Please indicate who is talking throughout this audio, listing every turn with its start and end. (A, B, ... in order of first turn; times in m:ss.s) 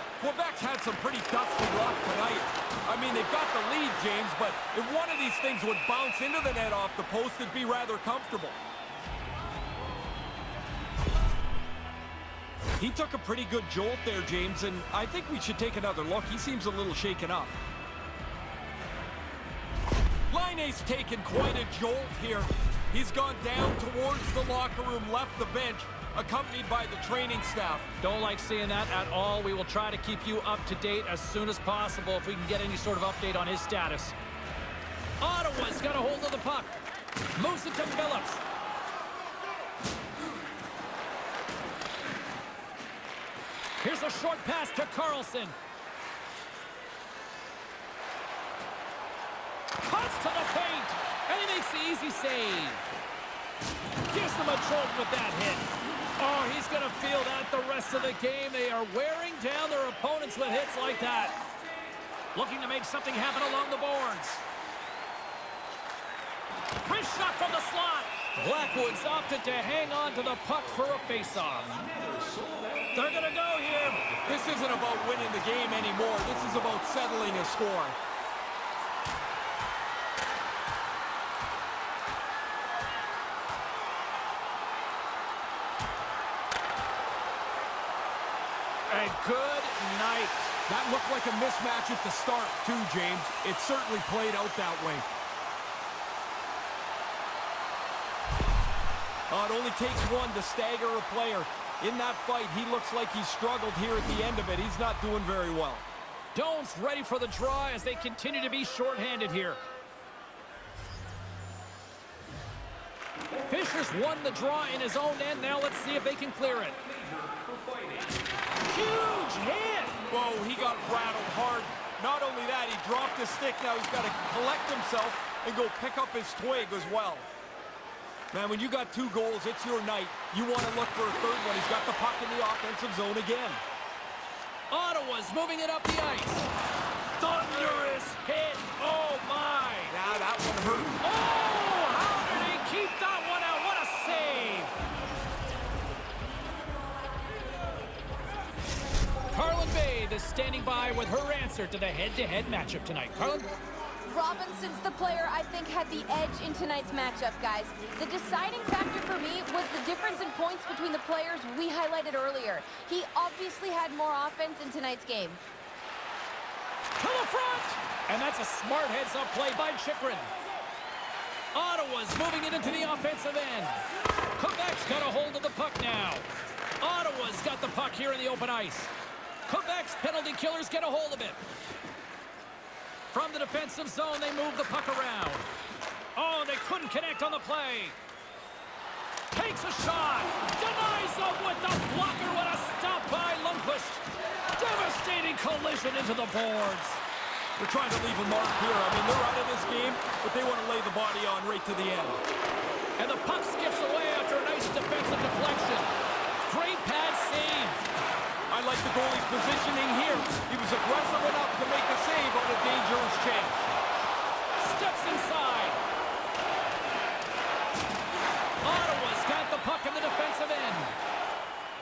0:00.2-0:08.6 A
0:12.8-0:17.6 A
0:20.3-0:27.9 A
0:28.0-0:34.1 B
0:35.2-0:36.8 B
0:37.4-0:38.4 B
0:43.8-0:45.6 B
0:49.8-0:52.8 B
0:54.1-1:01.3 B
1:02.3-1:04.4 B
1:06.8-1:11.9 B
1:12.9-1:14.0 B
1:14.2-1:18.0 A
1:28.9-1:30.5 B
1:30.7-1:35.0 A
1:39.3-1:45.8 A
1:46.3-1:49.6 B
1:53.4-1:56.9 B
1:58.6-2:00.0 B
2:00.1-2:07.3 A
2:08.3-2:13.6 A
2:14.7-2:16.5 B
2:17.2-2:20.0 B
2:19.9-2:21.0 A
2:21.0-2:24.7 B
2:29.3-2:33.5 B
2:34.0-2:45.4 C
2:47.0-2:50.3 B
2:51.5-2:53.8 B
2:54.4-2:56.2 B
2:56.8-2:58.9 B
2:59.5-3:01.4 B
3:03.1-3:05.5 B
3:06.2-3:08.0 B
3:09.3-3:14.0 B
3:14.5-3:17.0 B
3:17.6-3:22.2 A
3:23.0-3:27.9 B
3:28.5-3:33.7 A
3:34.6-3:35.8 B
3:38.6-3:41.0 B